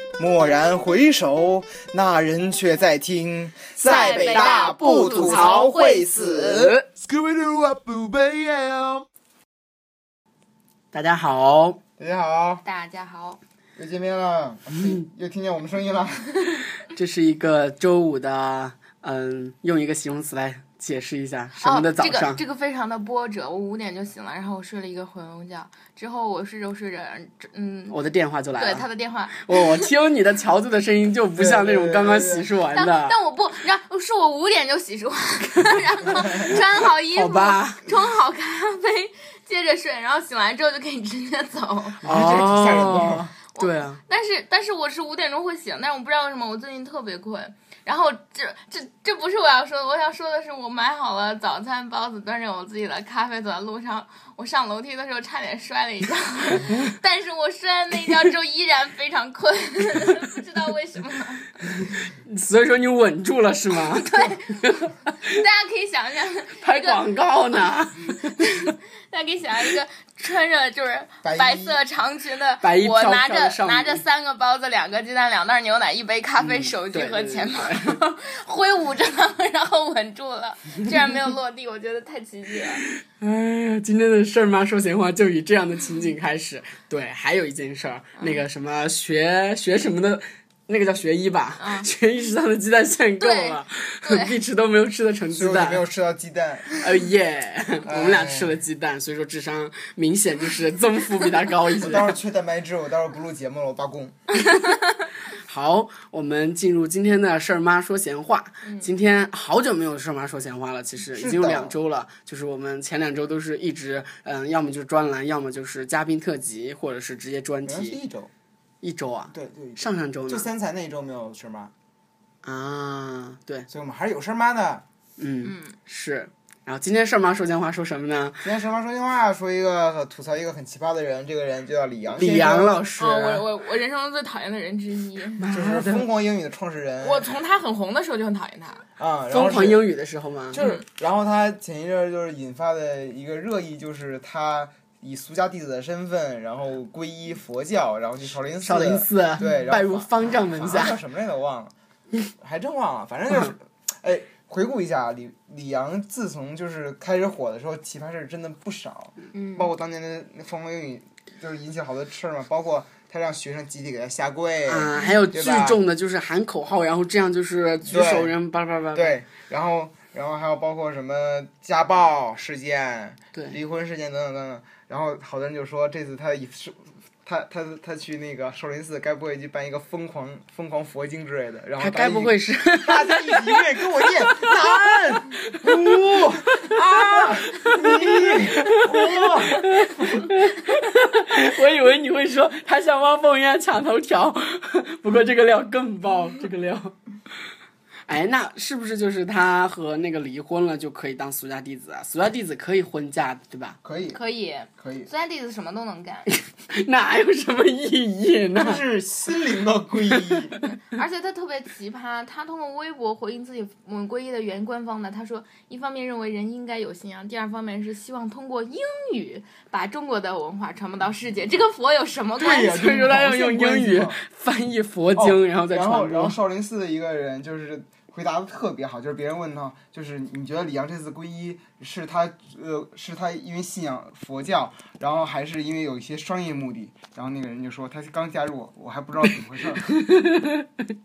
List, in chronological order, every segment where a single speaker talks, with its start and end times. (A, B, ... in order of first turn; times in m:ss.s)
0:00.2-0:09.0 A
0:03.8-0:05.6 B
0:03.8-0:06.6 C
0:06.5-0:06.8 B
0:10.9-0:11.8 B
0:12.0-0:12.6 A
0:12.6-0:13.4 C
0:13.8-0:16.6 A
0:16.8-0:22.4 B
0:21.6-0:28.0 C
0:27.9-0:33.2 B
0:28.6-0:29.9 C
0:31.4-0:32.5 A
0:32.7-0:42.1 C
0:36.4-0:37.9 B
0:42.0-0:43.3 A
0:42.0-0:44.0 B
0:43.5-1:01.5 C
1:01.8-1:05.4 B
1:04.0-1:07.0 C
1:06.6-1:08.4 B
1:08.4-1:22.8 C
1:11.2-1:11.8 A
1:12.6-1:14.0 B
1:16.4-1:18.0 B
1:23.1-1:35.8 B
1:31.6-1:31.9 C
1:33.2-1:34.4 C
1:35.3-1:36.7 A
1:36.8-1:42.1 B
1:37.8-1:38.6 A
1:41.8-1:44.2 A
1:44.5-1:44.8 C
1:45.3-1:58.0 B
1:51.1-1:51.8 A
1:57.6-1:58.3 A
1:58.8-2:00.5 B
1:59.3-2:01.7 A
2:02.4-2:03.7 B
2:03.7-2:04.8 A
2:05.2-2:08.5 B
2:05.4-2:05.7 C
2:08.4-2:12.8 A
2:12.2-2:13.4 B
2:13.0-2:15.5 C
2:15.4-2:16.0 B
2:15.5-2:17.3 A
2:17.0-2:18.8 C
2:19.0-2:19.8 A
2:19.3-2:20.6 B
2:20.5-2:31.7 A
2:28.6-2:31.0 B
2:32.4-2:45.8 A
2:39.3-2:39.7 C
2:44.7-2:49.2 B
2:47.8-2:48.3 A
2:48.9-3:10.0 A
3:01.8-3:03.6 B
3:04.2-3:16.9 B
3:18.1-3:23.8 B
3:23.8-3:24.2 A
3:24.1-3:26.3 C
3:24.8-3:25.1 A
3:26.3-3:28.8 B
3:28.6-3:30.6 A
3:30.1-3:30.4 B
3:30.8-3:42.8 C
3:42.4-3:44.2 A
3:42.4-3:46.4 B
3:45.2-3:59.9 A
3:59.8-4:00.7 B